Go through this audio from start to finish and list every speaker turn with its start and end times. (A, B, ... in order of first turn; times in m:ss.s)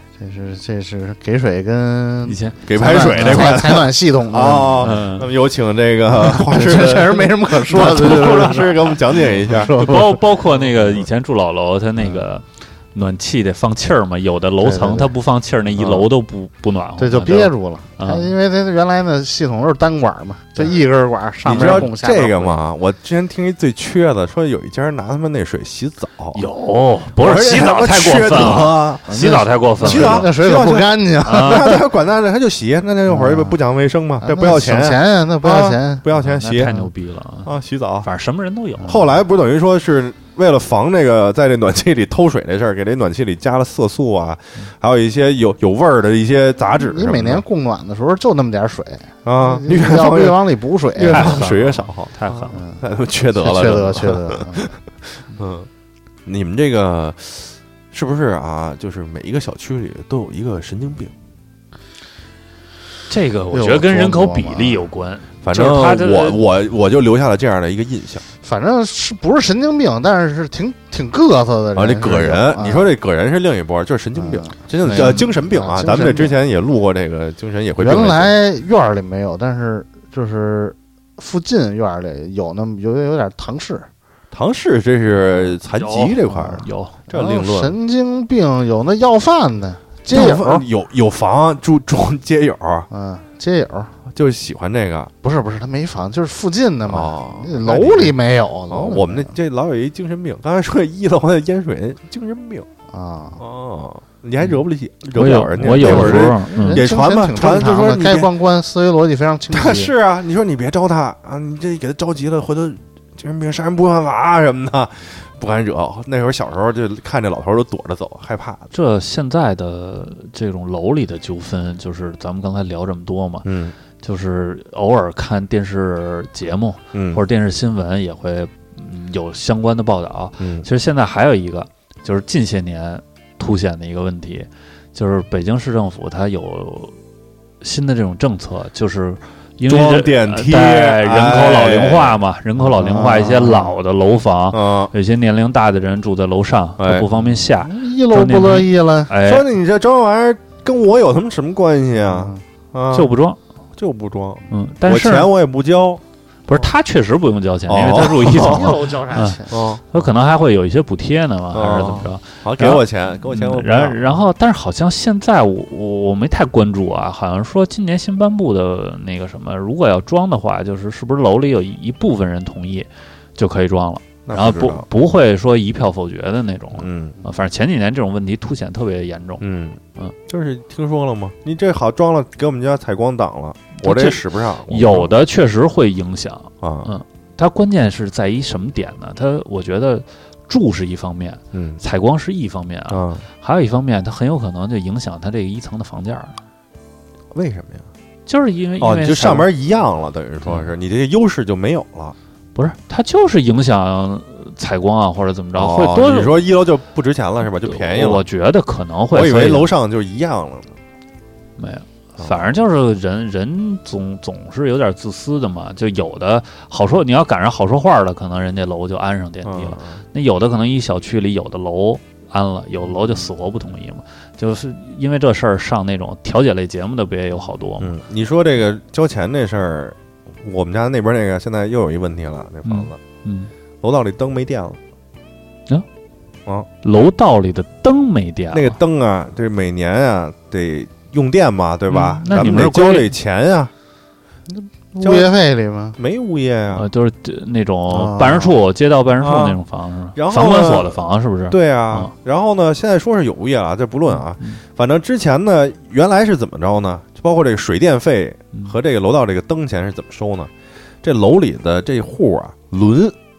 0:00.2-0:04.9 A
0:02.2-0:03.5 B
0:02.6-0:10.0 C
0:04.8-0:05.3 B
0:06.1-0:10.2 A
0:09.6-0:18.3 B
0:14.6-0:15.1 A
0:15.8-0:16.1 C
0:17.0-0:22.6 A
0:21.4-0:26.4 C
0:21.5-0:21.9 B
0:26.3-0:30.3 B
0:27.2-0:29.2 C
0:29.1-0:31.8 A
0:29.8-0:36.8 C
0:31.2-0:31.8 B
0:33.1-0:33.6 A
0:34.2-0:36.0 A
0:36.1-0:37.5 B
0:37.4-0:38.1 C
0:38.0-0:39.0 B
0:38.8-0:39.1 A
0:38.8-0:47.4 C
0:46.8-0:51.4 A
0:49.2-0:55.7 C
0:51.0-0:52.6 B
0:52.5-0:52.8 A
0:53.4-0:54.7 A
0:56.2-1:01.1 C
1:03.1-1:06.4 B
1:03.5-1:04.9 A
1:05.4-1:08.2 C
1:08.4-1:12.9 A
1:11.7-1:18.4 C
1:14.2-1:16.3 A
1:14.8-1:15.3 B
1:17.8-1:23.9 A
1:24.3-1:27.8 C
1:25.7-1:27.0 B
1:26.3-1:30.6 A
1:30.1-1:32.9 C
1:32.9-1:33.9 A
1:34.1-1:35.1 C
1:35.2-1:39.3 A
1:36.9-1:38.2 C
1:38.7-1:42.7 C
1:42.9-1:43.4 A
1:43.4-1:48.3 C
1:45.1-1:46.8 B
1:45.6-1:49.9 A
1:49.5-1:58.7 C
1:58.7-2:03.5 B
2:03.4-2:03.7 C
2:04.0-2:17.0 B
2:06.9-2:07.2 C
2:10.4-2:10.7 C
2:17.6-2:29.4 B
2:19.7-2:22.2 C
2:22.6-2:23.8 A
2:24.5-2:24.9 C
2:26.8-2:27.1 C
2:27.5-2:29.1 A
2:29.2-2:33.1 C
2:32.0-2:32.4 A
2:32.9-2:33.4 B
2:33.8-2:36.0 C
2:34.5-2:35.3 B
2:36.5-2:59.4 B
2:37.7-2:38.9 C
2:38.3-2:39.6 A
2:39.5-2:39.8 C
2:41.5-2:44.2 C
2:54.2-2:54.9 C
2:56.8-2:57.2 C
2:59.4-3:05.1 C
3:03.8-3:16.4 B
3:06.6-3:06.9 C
3:11.5-3:11.8 C
3:12.9-3:13.2 C
3:17.3-3:17.9 C
3:18.3-3:19.5 B
3:18.8-3:22.2 C
3:22.5-3:26.4 B
3:25.5-3:28.2 C
3:27.6-3:29.7 B
3:29.1-3:30.7 C
3:31.6-3:48.0 B
3:32.2-3:32.5 C
3:39.4-3:40.0 C
3:47.8-3:53.0 C
3:52.6-3:53.5 B
3:53.8-3:54.8 C
3:56.8-3:58.8 B
3:58.5-4:03.7 C
4:01.9-4:03.1 B
4:04.5-4:06.0 A
4:05.0-4:05.3 C
4:06.0-4:06.9 C
4:06.7-4:12.1 B
4:07.9-4:08.5 A
4:09.2-4:09.6 C
4:10.1-4:20.5 C
4:21.0-4:23.2 C